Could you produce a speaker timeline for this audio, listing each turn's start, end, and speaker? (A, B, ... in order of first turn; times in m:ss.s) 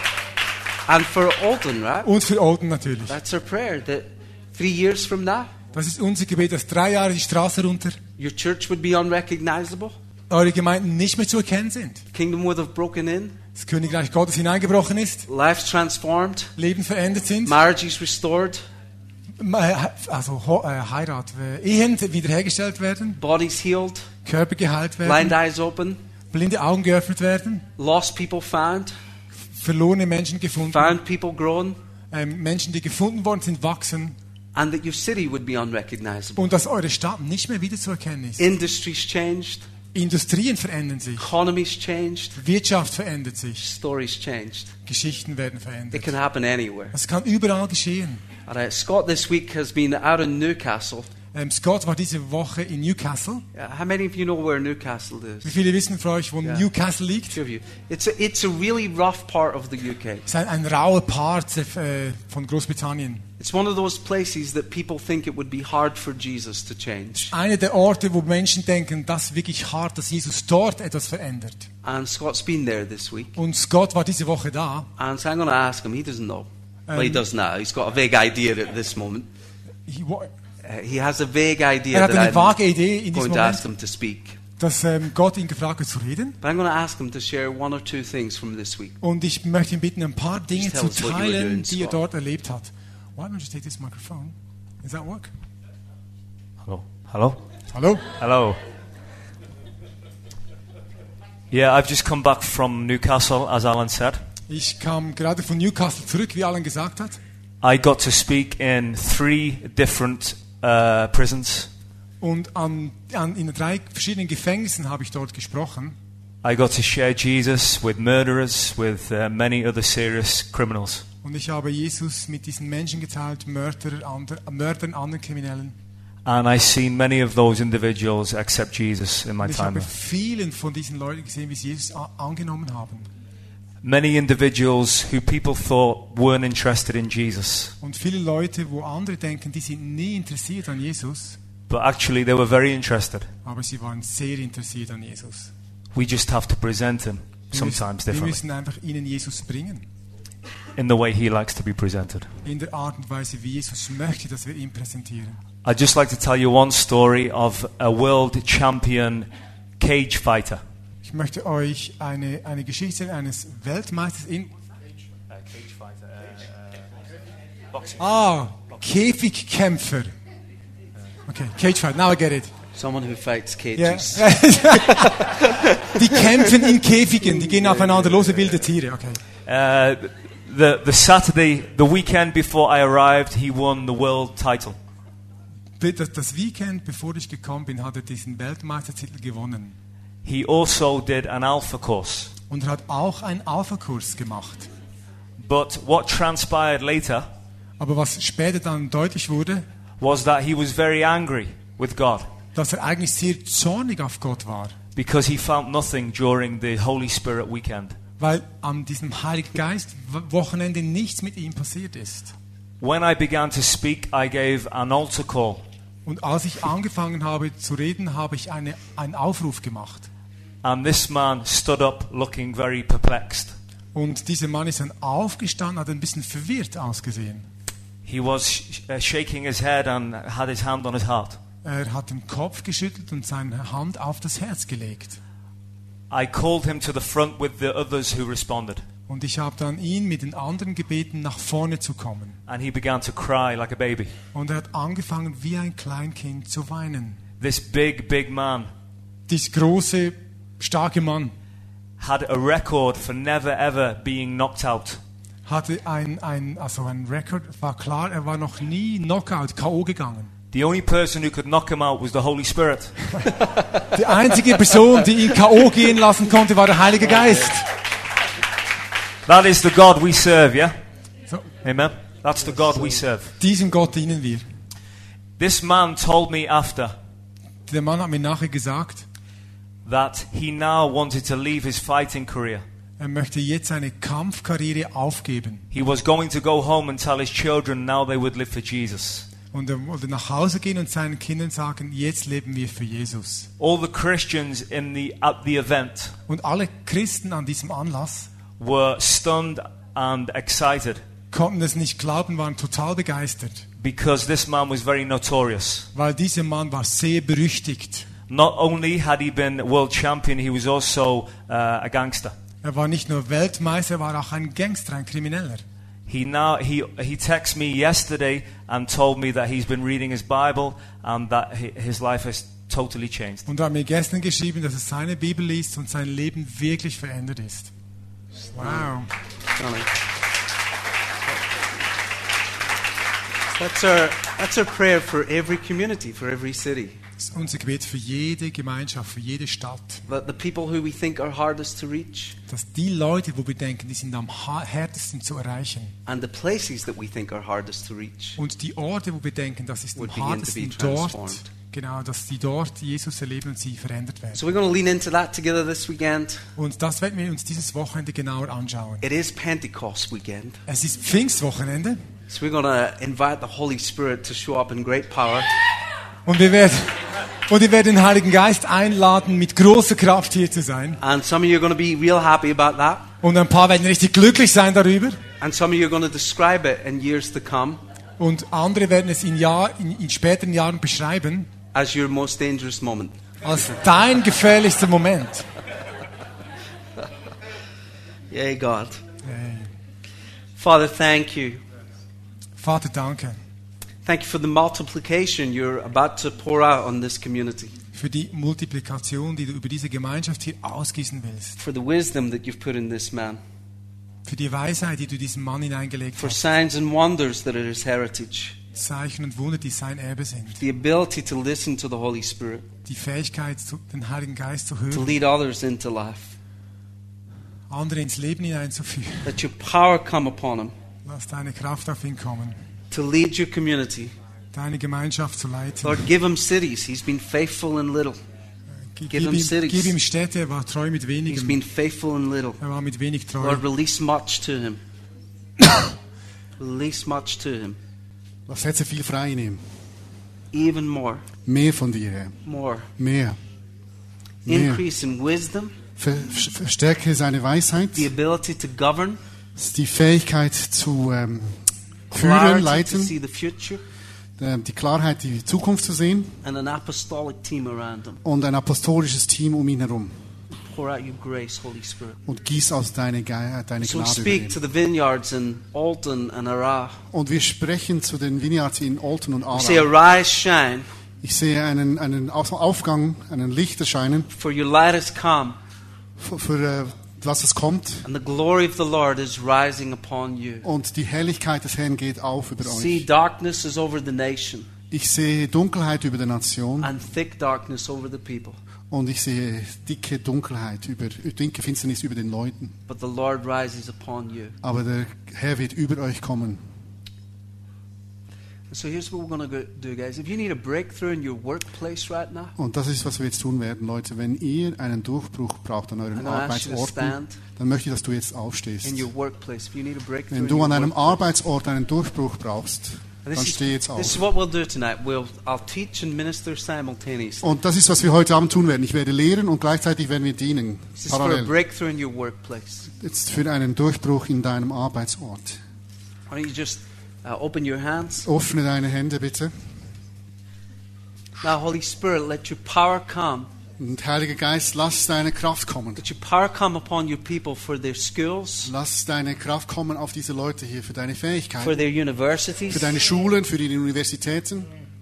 0:00.8-0:02.1 A
0:02.0-0:03.2 B
0:03.1-0:05.5 A
0:05.7-0:08.0 B
0:08.2-0:10.0 A
0:10.3-0:12.0 B
0:12.1-0:13.4 A
0:13.5-0:15.2 B
0:15.2-0:16.5 A
0:16.6-0:17.6 B
0:17.4-0:18.6 A
0:19.4-0:23.2 B
0:23.2-0:24.1 A
0:24.2-0:25.4 B
0:25.0-0:26.0 A
0:26.3-0:27.7 B
0:27.8-0:28.9 A
0:29.5-0:31.0 B
0:30.7-0:31.8 A
0:32.1-0:34.2 B
0:34.5-0:36.5 A
0:36.4-0:38.5 B
0:38.4-0:39.6 A
0:39.9-0:41.2 B
0:41.2-0:42.4 A
0:42.4-0:43.6 B
0:43.6-0:44.7 A
0:44.8-0:46.1 B
0:45.9-0:47.0 A
0:46.9-0:48.2 B
0:48.4-0:51.1 A
0:51.3-0:53.4 B
0:53.5-0:55.5 A
0:55.4-0:57.4 B
0:56.4-0:56.7 A
0:57.3-1:00.3 A
1:00.3-1:03.2 B
1:03.4-1:07.3 A
1:07.3-1:11.7 B
1:11.8-1:13.3 A
1:13.4-1:14.9 B
1:15.0-1:19.3 A
1:16.9-1:17.2 B
1:19.8-1:20.3 B
1:20.6-1:22.6 A
1:21.9-1:23.6 B
1:23.1-1:24.4 A
1:24.6-1:26.4 B
1:26.4-1:29.0 A
1:29.0-1:35.3 B
1:30.5-1:32.0 A
1:36.6-1:37.4 C
1:37.7-1:38.1 B
1:38.2-1:38.6 C
1:41.5-1:44.2 C
1:44.5-1:47.2 B
1:47.6-1:51.7 C
1:52.2-1:56.0 B
1:56.4-2:01.0 C
2:01.2-2:05.7 B
2:06.2-2:09.9 C
2:09.4-2:13.1 B
2:13.8-2:17.7 C
2:17.8-2:21.4 B
2:21.7-2:23.3 C
2:23.4-2:25.5 B
2:25.9-2:28.4 C
2:27.5-2:29.8 B
2:30.8-2:32.3 C
2:32.4-2:35.4 B
2:35.6-2:39.3 C
2:39.8-2:40.6 C
2:41.0-2:44.5 B
2:45.3-2:46.5 C
2:47.7-2:48.0 C
2:48.0-2:50.1 B
2:51.3-2:52.5 B
2:52.7-2:56.3 A
2:53.8-2:55.4 B
2:56.0-2:59.2 B
2:57.6-2:58.3 A
2:59.4-3:04.8 C
3:05.8-3:09.8 B
3:10.2-3:12.3 C
3:12.5-3:14.7 B
3:15.4-3:17.3 C
3:17.8-3:19.6 B
3:20.0-3:22.3 C
3:22.5-3:24.8 B
3:25.0-3:28.0 C
3:28.2-3:32.3 B
3:32.8-3:35.6 C
3:36.0-3:40.1 B
3:40.6-3:43.5 C
3:43.9-3:47.5 B
3:48.0-3:51.4 C
3:51.6-3:55.2 B
3:56.1-3:58.8 C
3:59.1-4:02.4 B
4:02.5-4:04.1 C
4:04.3-4:07.2 B
4:07.4-4:08.7 C
4:09.3-4:11.3 B
4:12.0-4:15.0 C
4:15.4-4:20.3 B
4:20.5-4:23.1 C
4:23.9-4:27.7 B
4:29.3-4:30.7 C
4:31.6-4:33.3 C
4:33.4-4:34.4 B
4:35.4-4:36.9 C
4:37.7-4:39.0 B
4:39.8-4:42.6 C
4:43.0-4:45.6 B
4:45.7-4:49.3 C
4:49.5-4:53.5 B
4:53.6-4:56.1 C
4:56.3-4:58.3 B
4:58.6-5:01.0 C
5:01.3-5:03.6 B
5:03.8-5:05.9 C
5:05.9-5:08.1 B
5:08.3-5:12.3 C
5:12.6-5:15.6 B
5:16.1-5:23.5 C
5:23.5-5:27.7 B
5:28.5-5:28.9 A
5:28.5-5:29.1 B
5:29.6-5:29.9 A
5:33.5-5:37.0 A
5:37.2-5:40.0 B
5:40.1-5:42.4 A
5:42.5-5:45.9 B
5:46.1-5:48.4 A
5:48.4-5:54.4 B
5:50.0-5:51.5 A
5:54.3-5:56.4 A
5:56.6-5:59.0 B
5:59.0-6:00.6 A
6:00.7-6:02.0 B
6:02.3-6:05.5 A
6:06.2-6:11.0 B
6:11.0-6:13.1 A
6:13.2-6:15.2 B
6:15.4-6:17.8 A
6:18.2-6:21.5 B
6:21.7-6:23.1 A
6:23.4-6:25.4 B
6:28.3-6:29.0 A
6:29.2-6:29.7 B
6:30.6-6:31.6 A
6:32.6-6:33.4 B
6:34.0-6:37.7 A
6:37.9-6:41.6 B
6:41.6-6:43.4 A
6:44.2-6:46.4 B
6:46.2-6:48.6 A
6:48.8-6:50.6 B
6:50.6-6:52.7 A
6:52.8-6:55.1 B
6:54.9-6:56.4 A
6:57.7-6:59.4 B
6:59.2-7:00.7 A
7:01.0-7:02.6 B
7:02.9-7:04.1 A
7:04.5-7:06.0 B
7:05.8-7:08.2 A
7:08.8-7:11.6 B
7:09.1-7:09.9 A
7:11.3-7:12.6 A
7:12.6-7:13.6 B
7:13.4-7:14.8 A
7:16.6-7:17.8 A
7:18.5-7:19.7 D
7:20.5-7:21.2 A
7:21.4-7:22.4 D
7:22.4-7:22.9 A
7:23.0-7:23.4 D
7:24.4-7:24.8 D
7:24.5-7:25.7 A
7:26.0-7:28.1 D
7:27.9-7:29.2 A
7:29.6-7:33.1 D
7:32.1-7:33.8 A
7:34.4-7:36.4 D
7:36.4-7:38.2 A
7:38.2-7:40.2 D
7:40.6-7:42.2 A
7:42.2-7:44.6 D
7:43.8-7:47.0 A
7:47.1-7:49.9 D
7:49.5-7:50.9 A
7:51.2-7:54.3 D
7:54.3-7:55.6 A
7:56.2-7:58.0 D
7:58.0-8:00.7 A
8:00.6-8:03.0 D
8:02.6-8:04.7 A
8:04.9-8:06.9 D
8:06.8-8:08.6 A
8:08.9-8:12.7 D
8:12.9-8:14.6 A
8:14.6-8:16.6 D
8:18.7-8:22.5 A
8:22.6-8:29.1 D
8:26.1-8:27.4 A
8:28.8-8:31.2 A
8:30.3-8:34.2 D
8:33.2-8:37.5 A
8:37.4-8:41.5 D
8:41.0-8:42.9 A
8:43.0-8:45.6 D
8:46.3-8:48.3 A
8:48.2-8:49.5 D
8:51.4-8:53.5 A
8:53.8-8:56.0 D
8:56.0-8:58.7 A
8:58.6-9:01.8 D
9:01.6-9:02.9 A
9:02.7-9:04.7 D